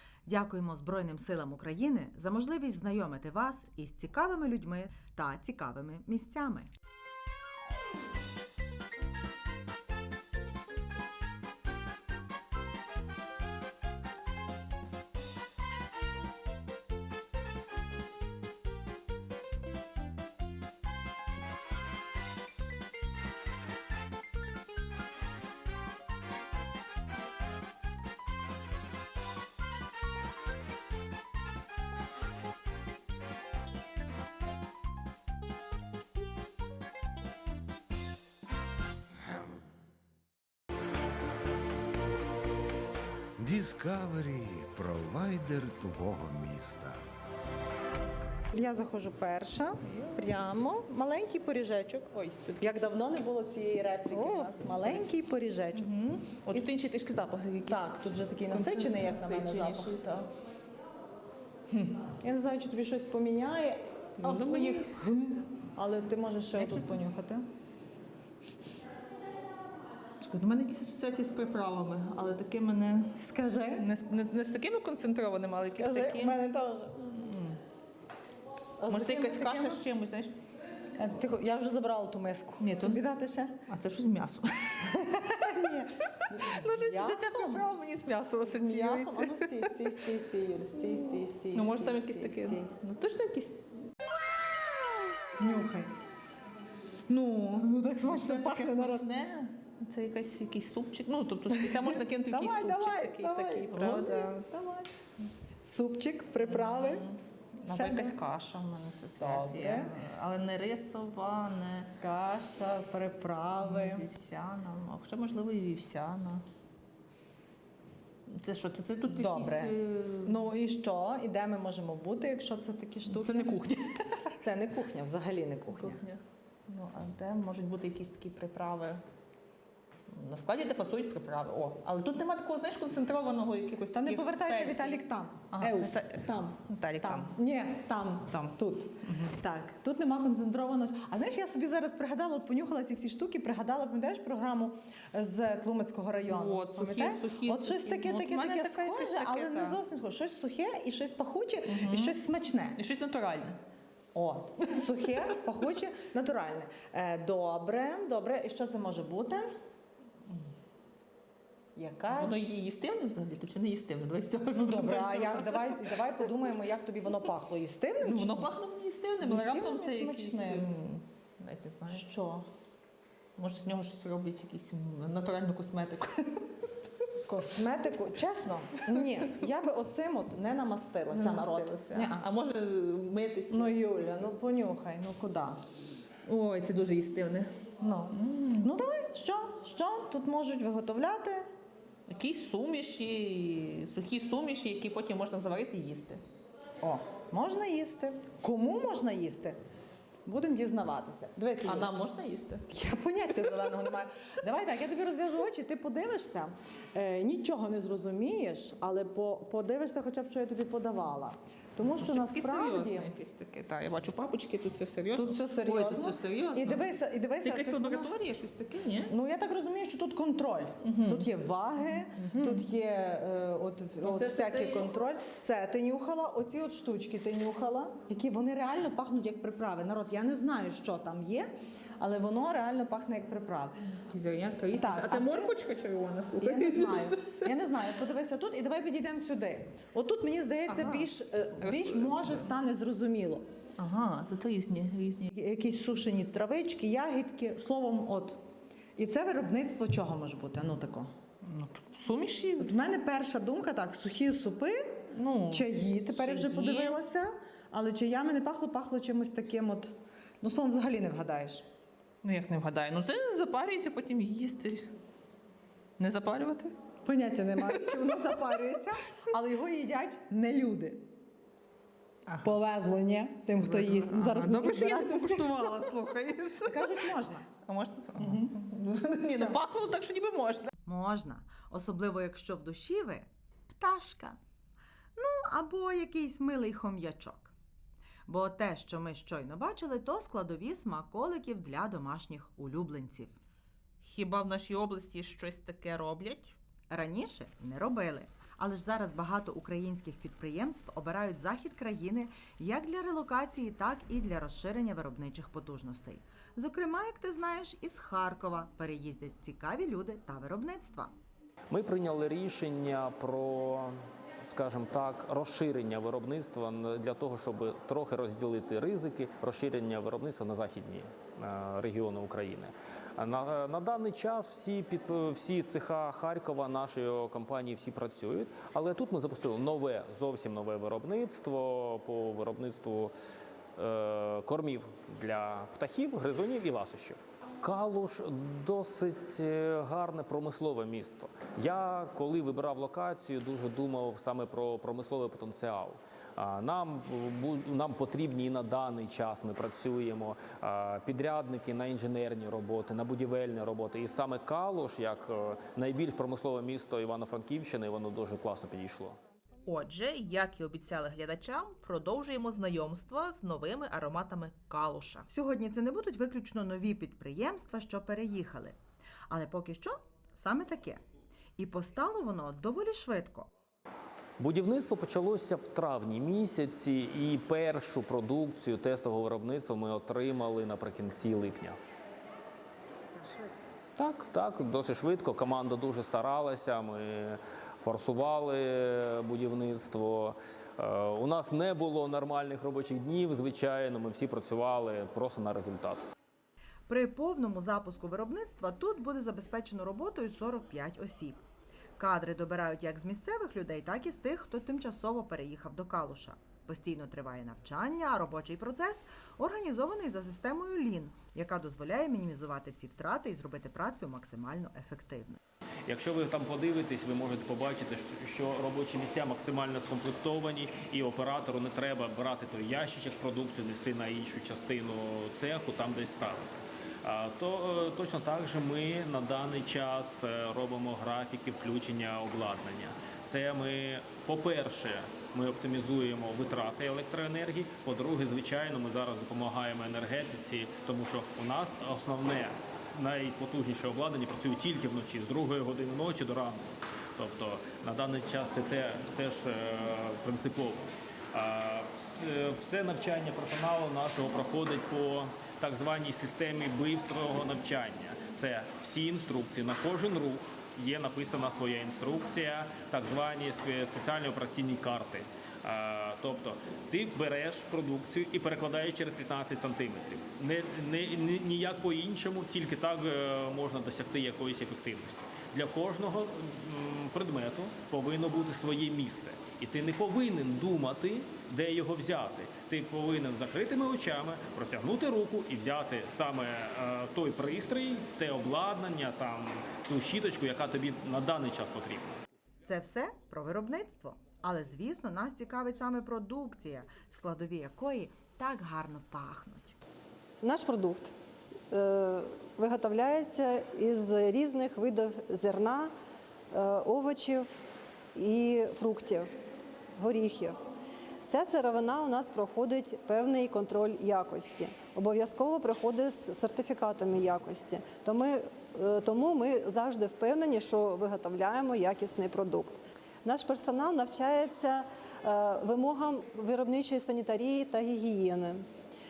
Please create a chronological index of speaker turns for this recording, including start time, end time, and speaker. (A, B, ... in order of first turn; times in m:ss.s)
0:00.2-0:06.7 A
0:43.4-0:47.0 B
0:48.5-0:56.7 C
0:49.9-0:50.3 D
0:52.1-0:52.9 D
0:54.1-0:55.1 D
0:55.7-1:00.3 D
0:57.7-1:00.0 C
1:01.7-1:02.0 D
1:02.2-1:07.4 C
1:04.2-1:05.1 D
1:06.6-1:07.0 D
1:10.2-1:13.1 D
1:13.2-1:13.8 C
1:13.8-1:17.6 D
1:15.7-1:17.0 C
1:18.8-1:19.8 C
1:18.9-1:20.4 D
1:21.0-1:23.6 C
1:22.6-1:23.0 D
1:23.6-1:24.9 D
1:25.0-1:27.7 C
1:26.3-1:29.7 D
1:28.4-1:32.7 C
1:30.8-1:33.7 D
1:35.4-1:35.9 C
1:37.1-1:44.5 D
1:37.6-1:39.0 C
1:41.5-1:44.9 C
1:45.6-1:47.0 C
1:46.4-1:51.9 D
1:47.7-1:48.2 C
1:49.2-1:49.9 C
1:52.0-1:54.0 C
1:53.6-1:56.4 D
1:58.3-2:00.4 D
1:59.0-2:03.5 C
2:03.1-2:04.0 D
2:04.4-2:06.0 C
2:05.7-2:09.0 D
2:10.1-2:17.3 D
2:13.9-2:32.8 C
2:19.0-2:19.3 D
2:26.2-2:29.8 D
2:31.6-2:32.2 D
2:32.7-2:33.6 D
2:34.1-2:39.5 C
2:34.6-2:35.4 D
2:41.8-2:42.5 C
2:42.1-2:46.2 D
2:44.6-2:48.5 C
2:48.0-2:52.1 D
2:49.2-2:50.7 C
2:51.9-2:52.4 C
2:53.4-2:56.4 D
2:57.2-3:02.2 C
3:01.1-3:03.8 D
3:03.5-3:05.6 C
3:06.2-3:08.7 D
3:07.8-3:11.5 C
3:12.1-3:16.2 D
3:16.8-3:19.6 C
3:20.2-3:21.9 C
3:21.6-3:22.6 D
3:22.7-3:33.1 C
3:31.9-3:39.1 D
3:35.1-3:38.1 C
3:39.1-3:53.8 C
3:40.8-3:41.3 D
3:42.2-3:42.6 D
3:44.0-3:44.9 D
3:54.0-3:57.6 D
3:54.7-3:55.5 C
3:56.3-4:03.4 C
4:00.6-4:02.5 D
4:03.8-4:05.3 D
4:05.3-4:08.4 C
4:09.0-4:11.1 C
4:11.5-4:12.8 D
4:12.6-4:21.6 C
4:15.1-4:17.0 D
4:22.2-4:24.9 D
4:26.0-4:26.7 D
4:27.0-4:31.0 C
4:27.6-4:28.3 D
4:32.3-4:32.6 D
4:32.4-4:35.9 C
4:33.5-4:40.7 D
4:36.6-4:37.5 C
4:38.2-4:38.5 C
4:40.8-4:44.4 A
4:45.2-4:47.5 A
4:48.3-4:53.4 A
4:54.0-4:56.6 D
4:56.9-5:11.1 A
5:11.7-5:33.1 E
5:33.8-5:59.2 E
5:59.6-6:05.3 D
6:05.3-6:08.8 A
6:09.3-6:11.0 A
6:11.6-6:13.5 A
6:14.4-6:21.8 E
6:24.0-6:36.1 E
6:36.9-6:41.4 A
6:42.0-6:55.4 A
6:55.8-8:12.2 E
8:12.6-8:19.8 A
8:20.4-8:25.9 F
8:26.5-8:27.6 F
8:28.1-8:29.3 F
8:30.0-8:30.6 F
8:31.2-8:48.6 F